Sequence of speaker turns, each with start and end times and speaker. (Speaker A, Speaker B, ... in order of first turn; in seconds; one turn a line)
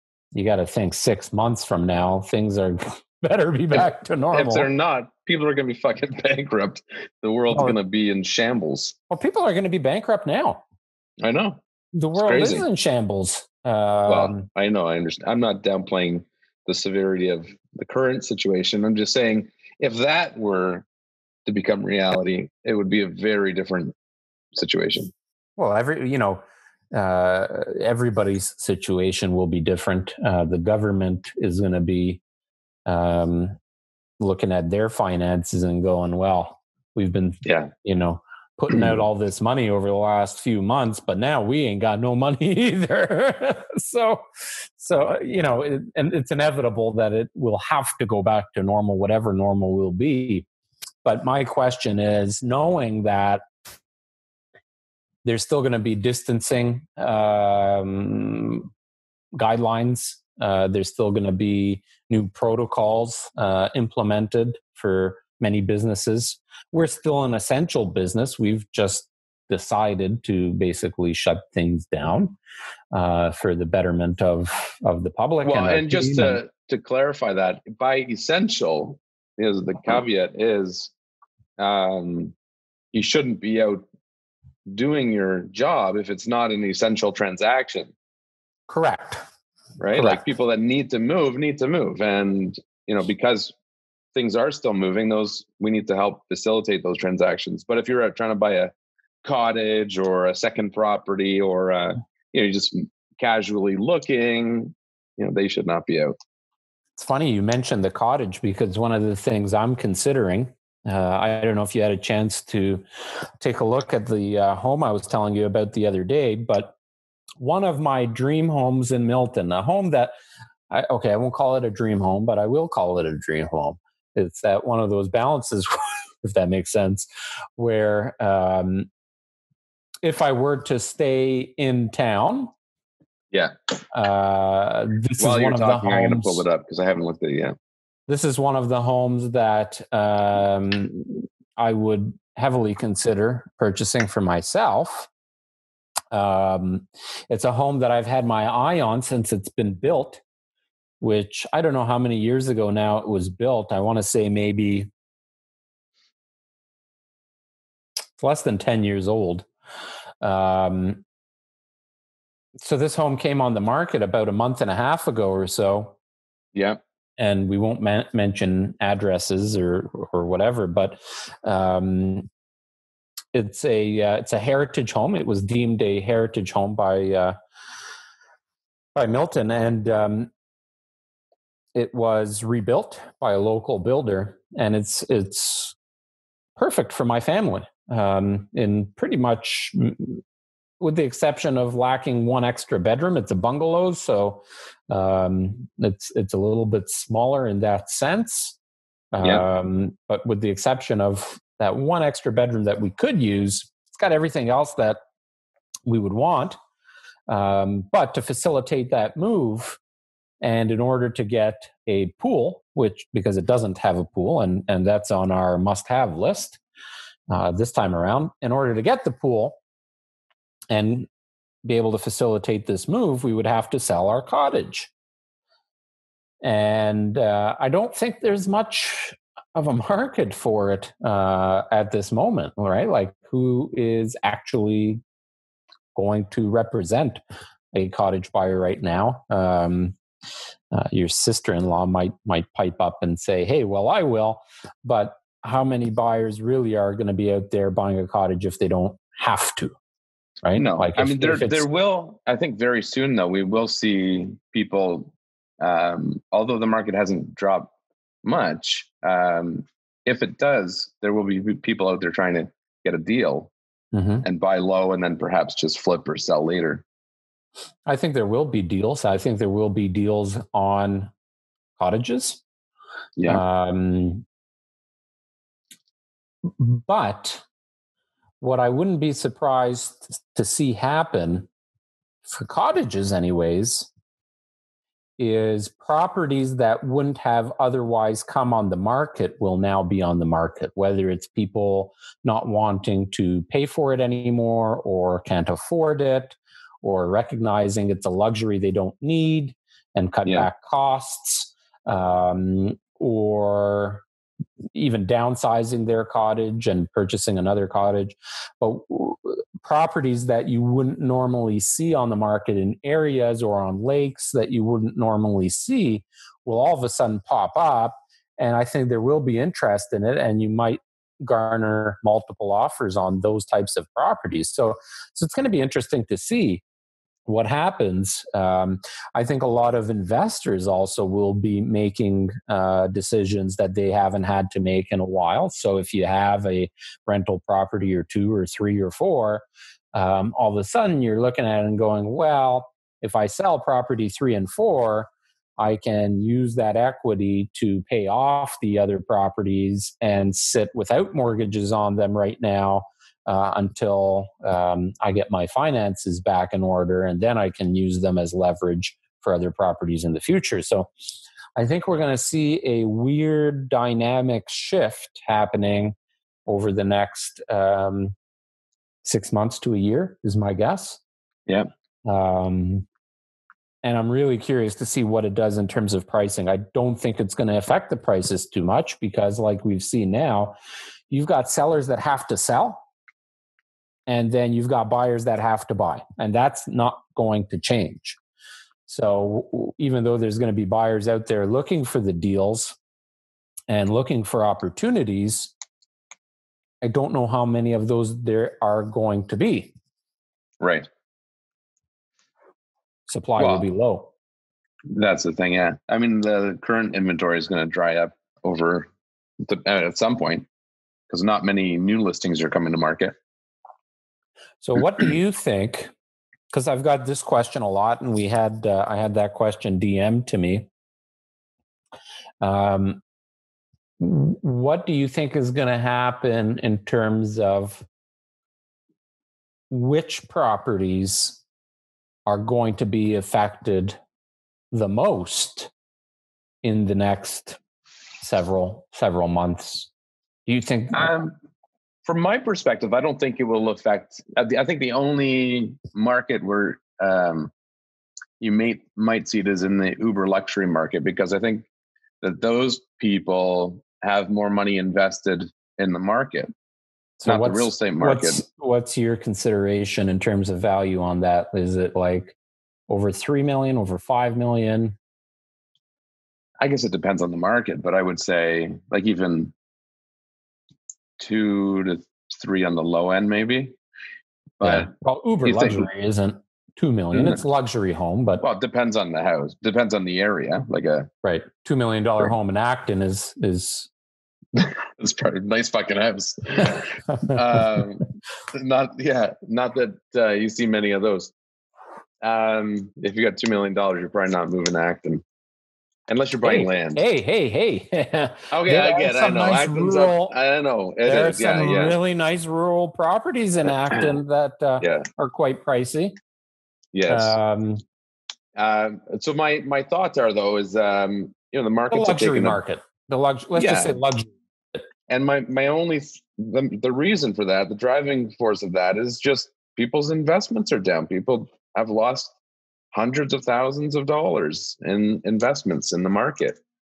Speaker A: 0.3-4.7
Speaker B: 4.3-8.9
Speaker A: 7.5-7.8
Speaker A: 9.1-10.6
Speaker B: 11.2-11.6
Speaker A: 11.9-14.5
Speaker B: 12.2-12.7
Speaker B: 14.1-20.9
Speaker B: 21.4-23.9
Speaker B: 24.5-25.1
Speaker A: 25.6-32.2
Speaker A: 32.9-33.6
Speaker A: 34.2-44.2
Speaker B: 37.4-37.7
Speaker B: 38.7-39.0
Speaker A: 44.8-50.5
Speaker A: 51.0-53.4
Speaker A: 55.2-58.7
Speaker A: 59.3-72.4
Speaker A: 72.9-76.4
Speaker B: 75.4-80.9
Speaker B: 81.6-82.3
Speaker B: 82.9-83.8
Speaker B: 84.7-87.9
Speaker A: 88.7-89.2
Speaker B: 89.8-93.5
Speaker A: 89.9-90.2
Speaker B: 94.1-98.7
Speaker B: 99.2-106.1
Speaker A: 107.0-112.8
Speaker A: 113.4-116.8
Speaker A: 117.4-120.1
Speaker A: 120.7-128.9
Speaker A: 130.0-132.5
Speaker A: 133.9-136.4
Speaker B: 135.2-137.5
Speaker A: 138.1-145.1
Speaker A: 146.1-150.2
Speaker A: 151.0-154.9
Speaker A: 158.2-159.5
Speaker A: 160.2-161.0
Speaker A: 162.6-165.9
Speaker B: 166.5-166.8
Speaker A: 167.2-172.3
Speaker A: 173.3-177.3
Speaker A: 178.9-180.3
Speaker A: 181.8-185.8
Speaker A: 186.6-190.2
Speaker A: 190.8-198.6
Speaker A: 199.1-205.0
Speaker A: 205.9-206.6
Speaker A: 207.3-209.8
Speaker A: 210.4-216.6
Speaker A: 217.3-219.6
Speaker A: 220.7-221.1
Speaker A: 221.6-224.9
Speaker A: 226.4-235.0
Speaker A: 235.9-237.2
Speaker A: 237.7-239.9
Speaker A: 240.7-249.8
Speaker A: 250.4-251.6
Speaker B: 250.5-257.7
Speaker B: 258.2-263.5
Speaker A: 263.9-264.2
Speaker B: 264.2-266.8
Speaker A: 267.9-271.1
Speaker A: 271.8-272.4
Speaker B: 273.2-273.4
Speaker A: 273.3-274.2
Speaker A: 276.6-277.4
Speaker A: 278.4-281.5
Speaker A: 282.2-283.9
Speaker A: 285.2-304.0
Speaker A: 304.7-326.6
Speaker A: 327.2-360.9
Speaker A: 361.6-365.9
Speaker A: 366.4-368.1
Speaker A: 369.0-371.0
Speaker A: 372.0-372.9
Speaker A: 373.8-380.6
Speaker A: 381.1-382.8
Speaker A: 384.1-388.2
Speaker A: 388.9-392.8
Speaker A: 393.7-395.5
Speaker A: 396.8-399.7
Speaker B: 400.6-400.9
Speaker A: 403.1-404.1
Speaker B: 403.4-403.6
Speaker B: 404.9-408.9
Speaker B: 409.4-410.5
Speaker B: 411.1-413.1
Speaker A: 414.6-415.9
Speaker A: 416.5-420.7
Speaker A: 422.4-423.0
Speaker A: 424.0-427.9
Speaker A: 429.7-431.4
Speaker A: 432.2-434.0
Speaker A: 434.7-435.7
Speaker A: 436.6-437.6
Speaker A: 438.2-439.9
Speaker A: 440.5-441.1
Speaker B: 440.9-441.3
Speaker B: 442.0-447.5
Speaker B: 448.4-451.7
Speaker B: 452.2-456.5
Speaker A: 457.2-462.4
Speaker B: 457.2-458.4
Speaker A: 462.9-465.0
Speaker B: 466.6-469.5
Speaker B: 471.2-473.8
Speaker B: 474.6-474.9
Speaker A: 474.6-478.4
Speaker B: 475.4-475.9
Speaker B: 477.1-477.4
Speaker B: 478.4-481.1
Speaker A: 481.2-483.9
Speaker B: 484.5-491.3
Speaker B: 492.2-495.2
Speaker B: 496.1-497.0
Speaker A: 496.4-500.4
Speaker B: 498.5-501.9
Speaker A: 501.0-506.1
Speaker B: 504.8-505.1
Speaker B: 506.9-507.4
Speaker A: 507.1-507.8
Speaker B: 508.6-512.6
Speaker A: 511.9-514.8
Speaker B: 513.5-514.0
Speaker B: 515.1-522.4
Speaker B: 522.9-526.6